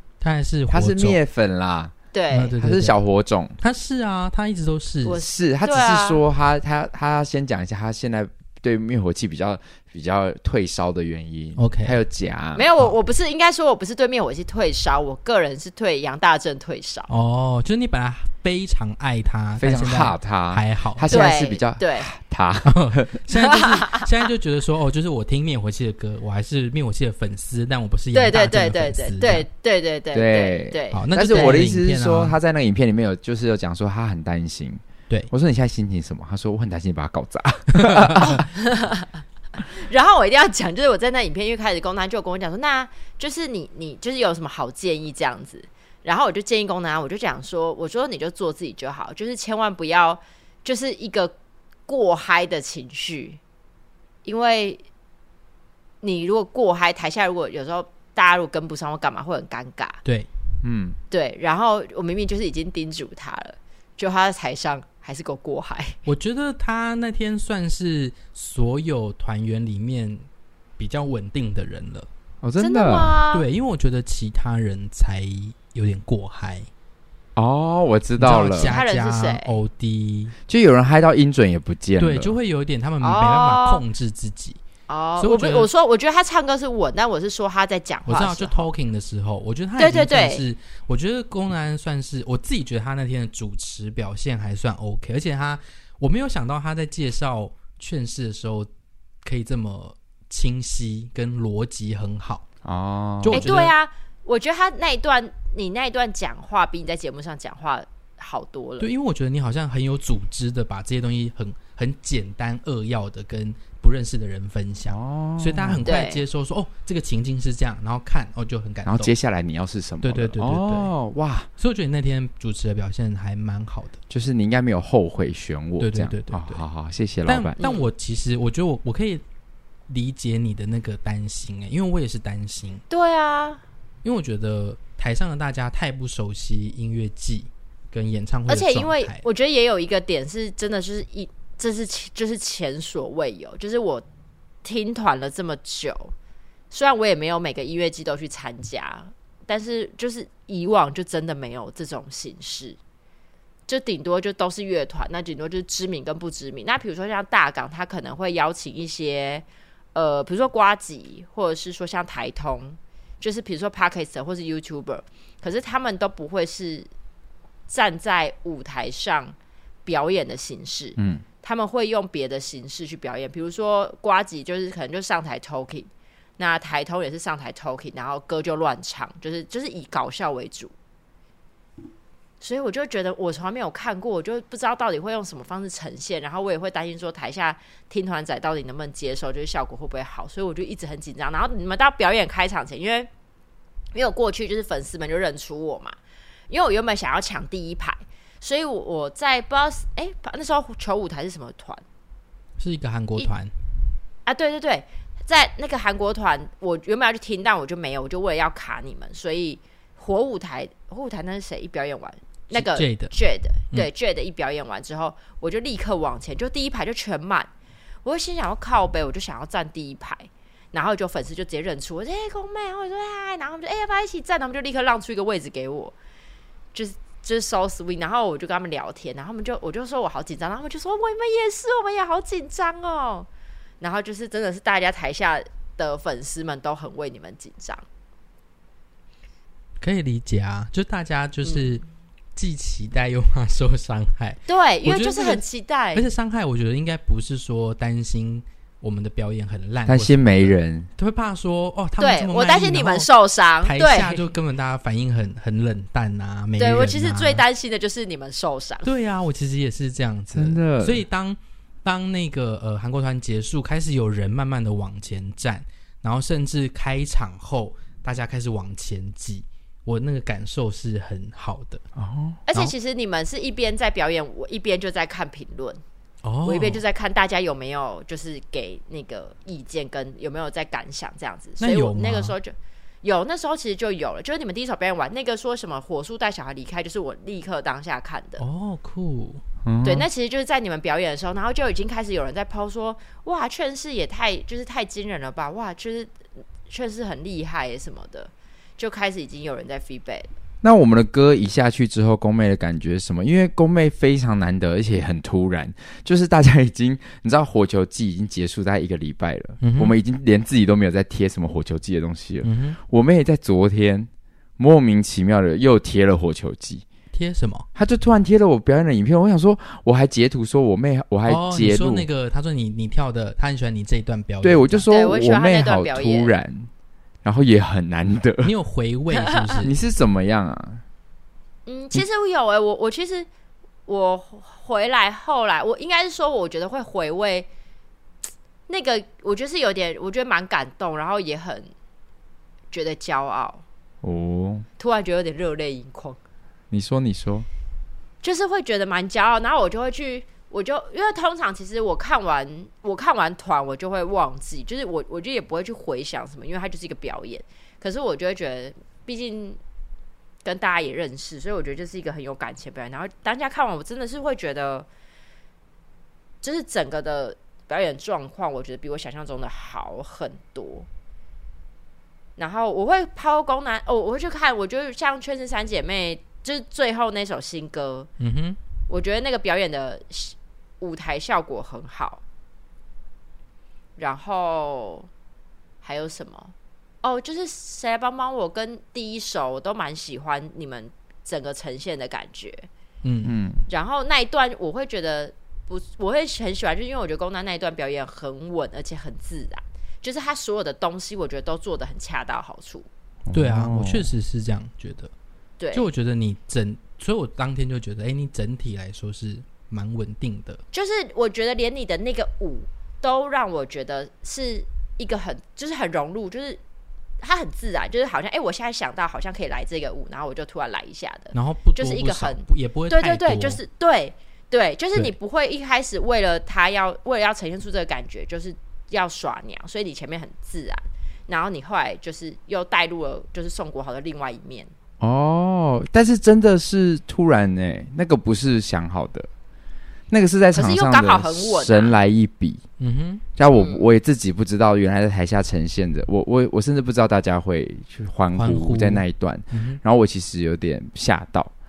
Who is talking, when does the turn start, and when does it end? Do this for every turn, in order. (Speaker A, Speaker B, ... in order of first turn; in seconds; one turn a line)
Speaker A: 0.2-1.2
Speaker B: 0.7-1.9
Speaker C: 2.1-2.5
Speaker A: 2.3-3.0
Speaker B: 2.5-3.6
Speaker A: 3.6-5.2
Speaker C: 5.0-6.2
Speaker B: 5.2-12.7
Speaker A: 11.6-12.0
Speaker C: 12.6-17.1
Speaker A: 17.1-21.2
Speaker B: 19.6-23.1
Speaker C: 21.1-22.1
Speaker A: 22.6-29.5
Speaker C: 23.4-24.1
Speaker C: 28.1-31.6
Speaker B: 30.1-38.5
Speaker A: 30.9-32.4
Speaker A: 37.7-38.4
Speaker C: 38.3-51.3
Speaker C: 51.9-53.4
Speaker C: 54.2-54.8
Speaker C: 56.0-60.0
Speaker B: 60.6-61.0
Speaker C: 61.1-66.0
Speaker A: 66.1-70.3
Speaker A: 70.8-72.1
Speaker B: 72.4-73.2
Speaker C: 72.6-73.5
Speaker A: 73.3-76.7
Speaker B: 77.4-78.7
Speaker A: 78.2-80.3
Speaker C: 78.5-79.6
Speaker B: 80.5-82.3
Speaker A: 82.0-84.6
Speaker C: 83.0-83.8
Speaker C: 84.9-88.7
Speaker A: 85.2-85.7
Speaker A: 88.1-98.7
Speaker C: 89.8-90.4
Speaker A: 99.2-102.5
Speaker B: 102.6-103.5
Speaker A: 103.2-103.7
Speaker C: 103.3-108.9
Speaker A: 108.8-119.1
Speaker B: 114.9-115.9
Speaker C: 115.9-116.2
Speaker B: 118.9-121.5
Speaker A: 120.0-120.9
Speaker A: 121.6-124.0
Speaker B: 124.1-127.6
Speaker A: 125.8-126.6
Speaker A: 127.3-129.2
Speaker C: 127.6-127.9
Speaker A: 129.9-132.8
Speaker C: 132.9-133.6
Speaker A: 134.0-139.2
Speaker C: 138.5-144.1
Speaker C: 144.6-146.1
Speaker C: 146.7-152.8
Speaker C: 153.7-166.9
Speaker C: 167.7-169.3
Speaker C: 169.9-180.7
Speaker B: 171.0-171.2
Speaker C: 182.4-193.1
Speaker C: 193.9-195.9
Speaker C: 196.5-201.8
Speaker A: 202.6-203.5
Speaker C: 204.3-217.5
Speaker A: 212.5-213.1
Speaker C: 218.0-225.9
Speaker C: 226.7-233.3
Speaker C: 233.8-237.8
Speaker A: 239.8-241.8
Speaker C: 241.4-241.8
Speaker A: 242.4-245.4
Speaker C: 244.5-246.1
Speaker A: 245.9-253.1
Speaker B: 249.9-250.9
Speaker C: 252.0-254.3
Speaker A: 253.6-257.4
Speaker C: 256.6-258.9
Speaker A: 258.8-271.9
Speaker B: 260.3-261.0
Speaker B: 272.0-272.4
Speaker C: 272.5-275.8
Speaker A: 276.2-276.8
Speaker C: 276.4-288.4
Speaker A: 281.6-282.4
Speaker A: 288.4-289.4
Speaker B: 289.6-290.1
Speaker C: 289.9-296.1
Speaker C: 296.7-300.3
Speaker B: 300.6-316.9
Speaker A: 309.6-310.0
Speaker A: 312.4-312.8
Speaker A: 317.1-317.7
Speaker B: 317.8-322.1
Speaker A: 321.3-324.9
Speaker B: 324.4-326.7
Speaker C: 324.9-326.3
Speaker B: 327.2-328.5
Speaker A: 328.4-329.7
Speaker B: 329.6-330.8
Speaker C: 331.7-333.3
Speaker C: 333.9-337.5
Speaker C: 338.7-341.7
Speaker C: 342.7-343.6
Speaker B: 344.0-344.7
Speaker C: 344.8-346.2
Speaker B: 346.7-347.5
Speaker C: 348.2-359.6
Speaker C: 360.4-364.9
Speaker C: 366.4-370.9
Speaker C: 372.4-378.1
Speaker A: 378.2-378.6
Speaker C: 378.9-382.2
Speaker C: 384.0-385.1
Speaker C: 385.8-392.7
Speaker A: 393.0-393.3
Speaker B: 393.2-393.7
Speaker C: 393.7-402.9
Speaker B: 403.2-404.1
Speaker A: 403.3-405.1
Speaker C: 405.6-405.9
Speaker A: 405.7-410.6
Speaker C: 410.7-416.6
Speaker C: 417.2-434.7
Speaker A: 421.3-423.6
Speaker B: 435.0-439.3
Speaker B: 440.1-442.6
Speaker C: 440.5-442.0
Speaker A: 442.8-443.2
Speaker B: 443.4-451.5
Speaker C: 443.5-443.9
Speaker A: 448.4-449.8